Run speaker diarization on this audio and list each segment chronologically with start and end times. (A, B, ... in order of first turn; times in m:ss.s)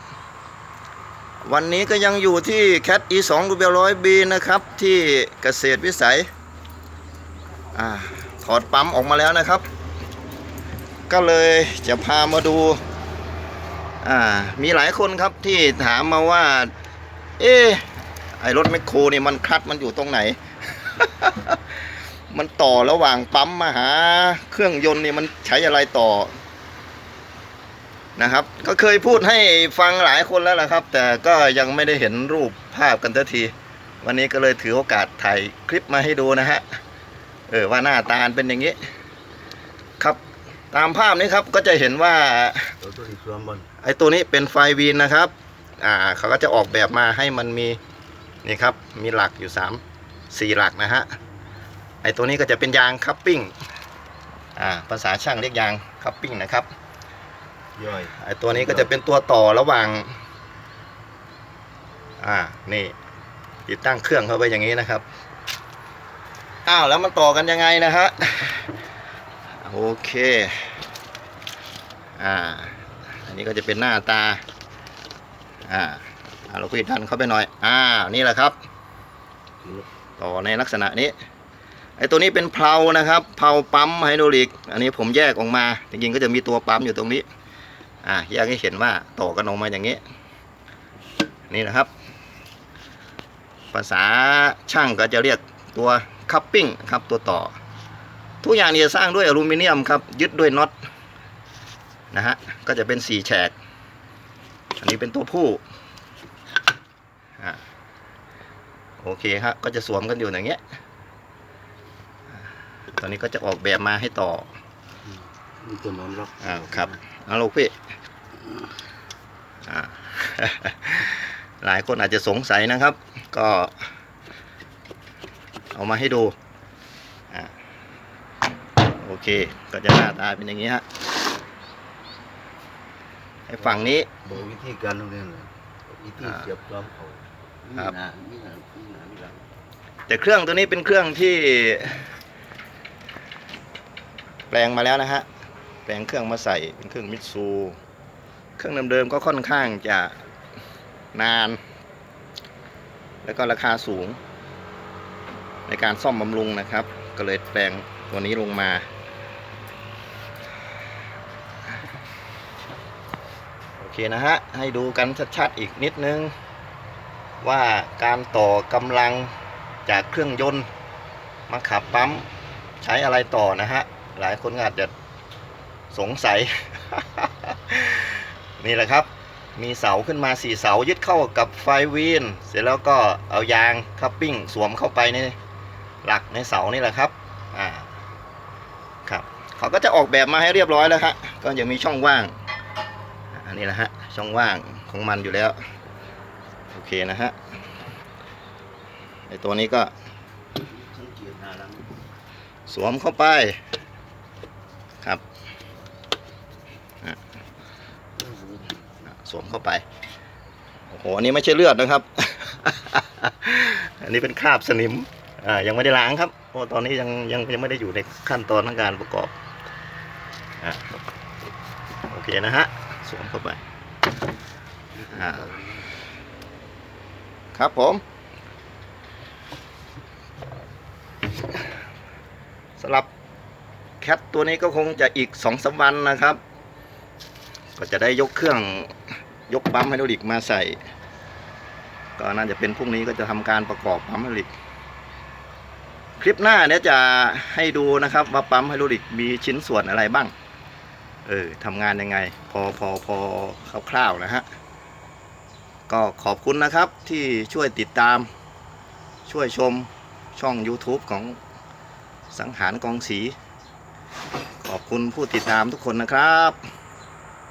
0:01.4-0:06.3 A
0:07.7-0:09.6 A
0:11.1-0:12.8 A
0:14.0-0:16.7 A
0:17.4-0:17.8 A
0:18.4-0:21.6 A
0:22.3-0:26.3 A
0:28.2-0:36.8 A
0:37.5-0:38.8 A
0:40.7-0:42.8 A
0:42.8-0:43.7 B
0:43.8-0:47.8 A
0:48.4-0:51.1 A
0:52.0-0:53.5 A
0:54.6-0:56.7 A
0:57.8-0:58.9 B
0:58.1-1:00.1 A
1:02.2-1:03.0 A
1:03.7-1:05.0 A
1:06.7-1:08.7 A
1:09.6-1:10.8 A
1:12.2-1:14.4 A
1:15.6-1:18.6 A
1:19.6-1:19.9 B
1:20.2-1:21.1 A
1:22.0-1:27.2 A
1:28.0-1:30.0 A
1:31.5-1:31.9 A
1:33.7-1:37.6 A
1:38.4-1:40.7 A
1:42.1-1:43.5 A
1:44.8-1:45.6 A
1:49.0-1:50.6 A
1:52.9-1:54.5 A
1:55.0-1:57.0 B
1:56.4-1:57.7 A
1:59.7-2:03.7 A
2:05.7-2:06.3 A
2:08.8-2:10.8 A
2:13.5-2:14.1 A
2:14.2-2:19.5 B
2:20.1-2:22.1 A
2:24.5-2:25.3 A
2:25.9-2:27.8 A
2:28.6-2:30.1 A
2:31.1-2:31.6 A
2:33.2-2:34.2 A
2:35.7-2:38.8 A
2:43.8-2:46.3 A
2:47.4-2:49.3 A
2:49.9-2:50.7 A
2:51.5-2:52.3 A
2:52.8-2:54.9 A
2:55.9-3:05.4 A
3:06.0-3:07.9 A
3:09.1-3:12.3 A
3:13.3-3:15.6 A
3:16.7-3:17.4 A
3:19.3-3:19.9 A
3:20.6-3:21.9 B
3:22.7-3:23.6 A
3:28.2-3:28.9 B
3:29.0-3:29.8 A
3:30.9-3:39.3 A
3:40.6-3:40.9 A
3:42.1-3:43.6 A
3:45.0-3:45.8 B
3:45.1-3:45.5 A
3:47.6-3:48.0 A
3:52.8-3:53.1 A
3:54.0-3:56.4 A
3:57.8-3:58.9 A
3:59.5-4:00.8 A
4:02.2-4:04.5 A
4:06.2-4:10.3 A
4:11.3-4:14.4 A
4:15.9-4:18.3 A
4:19.2-4:21.4 A
4:22.3-4:23.3 A
4:24.6-4:26.6 A